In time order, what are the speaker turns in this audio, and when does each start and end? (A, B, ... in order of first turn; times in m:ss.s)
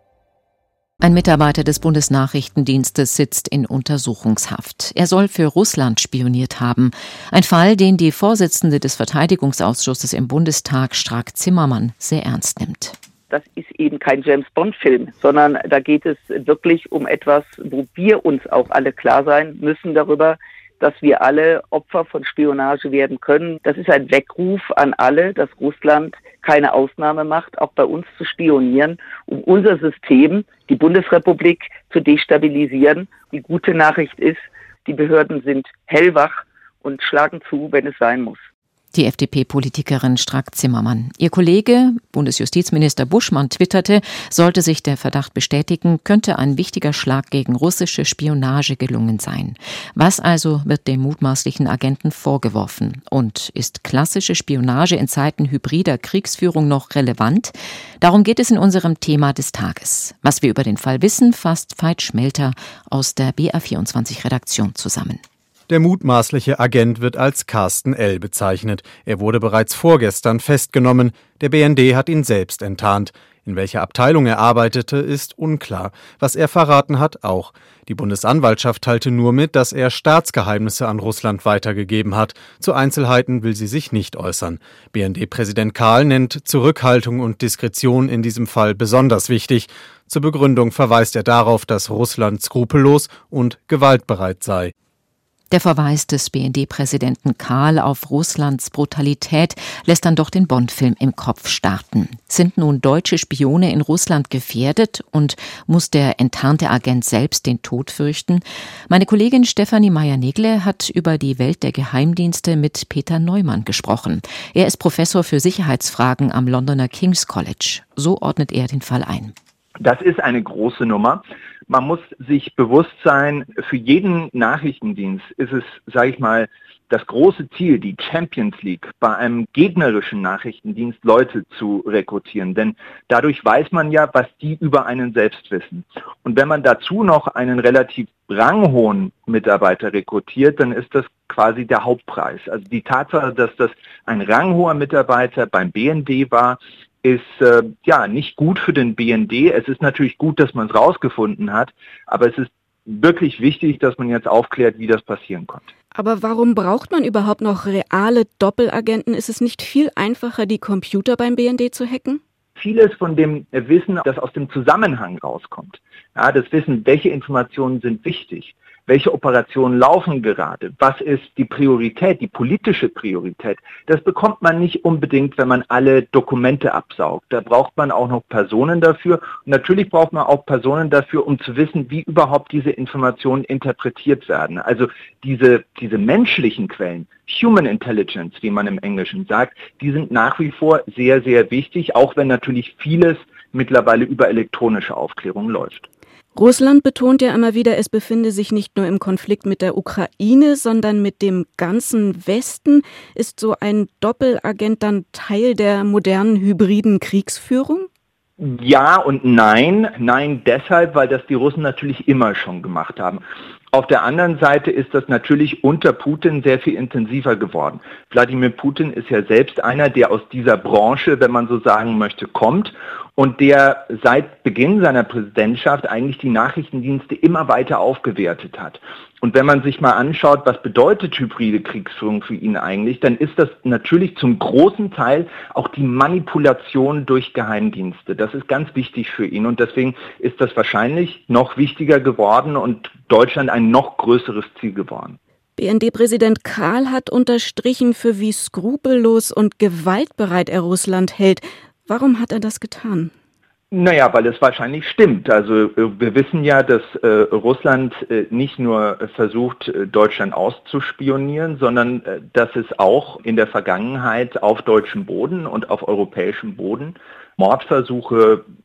0:01.0-0:13.0 A
0:13.3-0:38.4 B
0:38.9-1:05.2 A
1:05.7-1:34.7 C
1:35.5-1:59.3 A
1:59.8-2:35.7 D
2:35.9-2:42.2 E
2:42.6-3:15.8 D
3:16.3-3:27.9 E
3:28.4-3:33.2 D
3:33.7-4:05.2 D
4:05.6-4:13.1 E
4:13.7-4:28.4 D